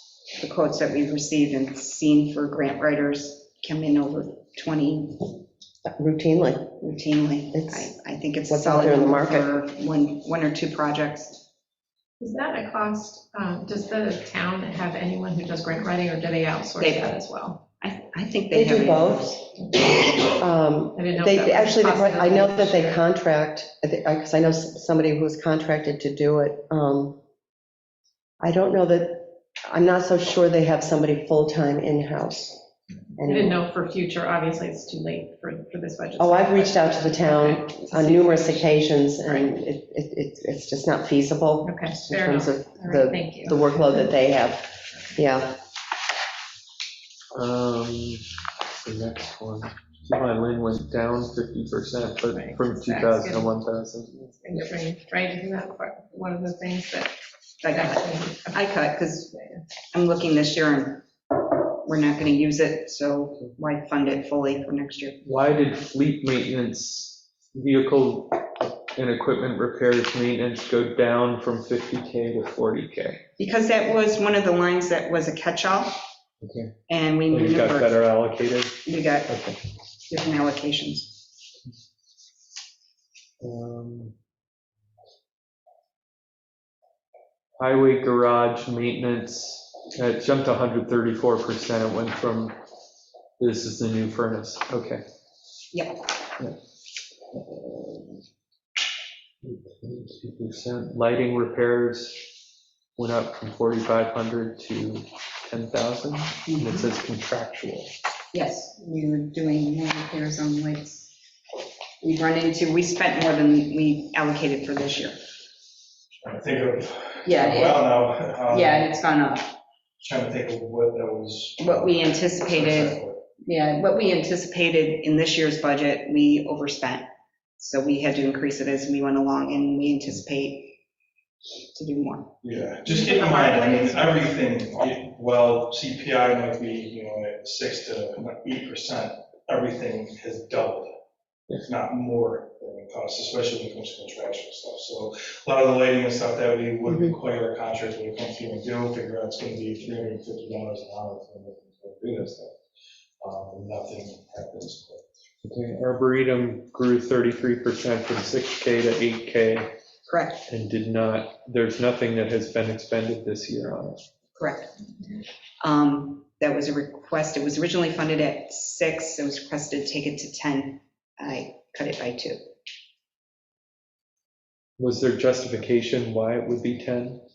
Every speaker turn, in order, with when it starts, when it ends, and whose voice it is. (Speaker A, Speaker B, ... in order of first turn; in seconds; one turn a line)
Speaker A: 0.3-5.3
Speaker B: 5.9-6.7
Speaker A: 6.8-11.4
Speaker B: 7.5-7.9
Speaker B: 8.5-9.5
Speaker C: 12.2-17.6
Speaker A: 16.8-17.2
Speaker A: 17.8-20.1
Speaker B: 18.5-19.4
Speaker B: 20.2-27.2
Speaker C: 20.9-23.0
Speaker B: 28.4-32.6
Speaker B: 33.2-33.6
Speaker C: 33.2-39.5
Speaker B: 36.2-45.6
Speaker C: 41.6-44.0
Speaker D: 47.3-48.2
Speaker D: 48.8-54.3
Speaker C: 52.3-53.6
Speaker C: 54.4-57.1
Speaker A: 57.6-59.4
Speaker C: 57.7-58.6
Speaker A: 59.9-61.0
Speaker A: 61.8-65.2
Speaker D: 65.2-73.2
Speaker A: 73.4-76.0
Speaker D: 76.4-76.7
Speaker A: 76.9-78.1
Speaker D: 77.3-79.6
Speaker A: 78.8-79.3
Speaker A: 80.1-81.1
Speaker D: 83.4-84.1
Speaker D: 87.6-92.5
Speaker D: 93.4-95.0
Speaker A: 95.7-96.0
Speaker D: 97.3-98.2
Speaker D: 99.4-102.3
Speaker D: 103.0-107.9
Speaker A: 106.5-106.8
Speaker A: 108.3-111.1
Speaker A: 112.0-115.2
Speaker E: 116.2-118.9
Speaker A: 117.2-119.5
Speaker E: 120.0-123.2
Speaker A: 121.6-130.8
Speaker A: 131.7-132.3
Speaker E: 132.4-140.9
Speaker C: 132.8-134.0
Speaker E: 141.6-152.6
Speaker B: 146.9-147.1
Speaker E: 153.2-155.0
Speaker D: 155.4-159.7
Speaker A: 160.1-160.4
Speaker D: 160.5-164.0
Speaker A: 164.3-164.7
Speaker A: 165.6-172.4
Speaker D: 174.8-177.2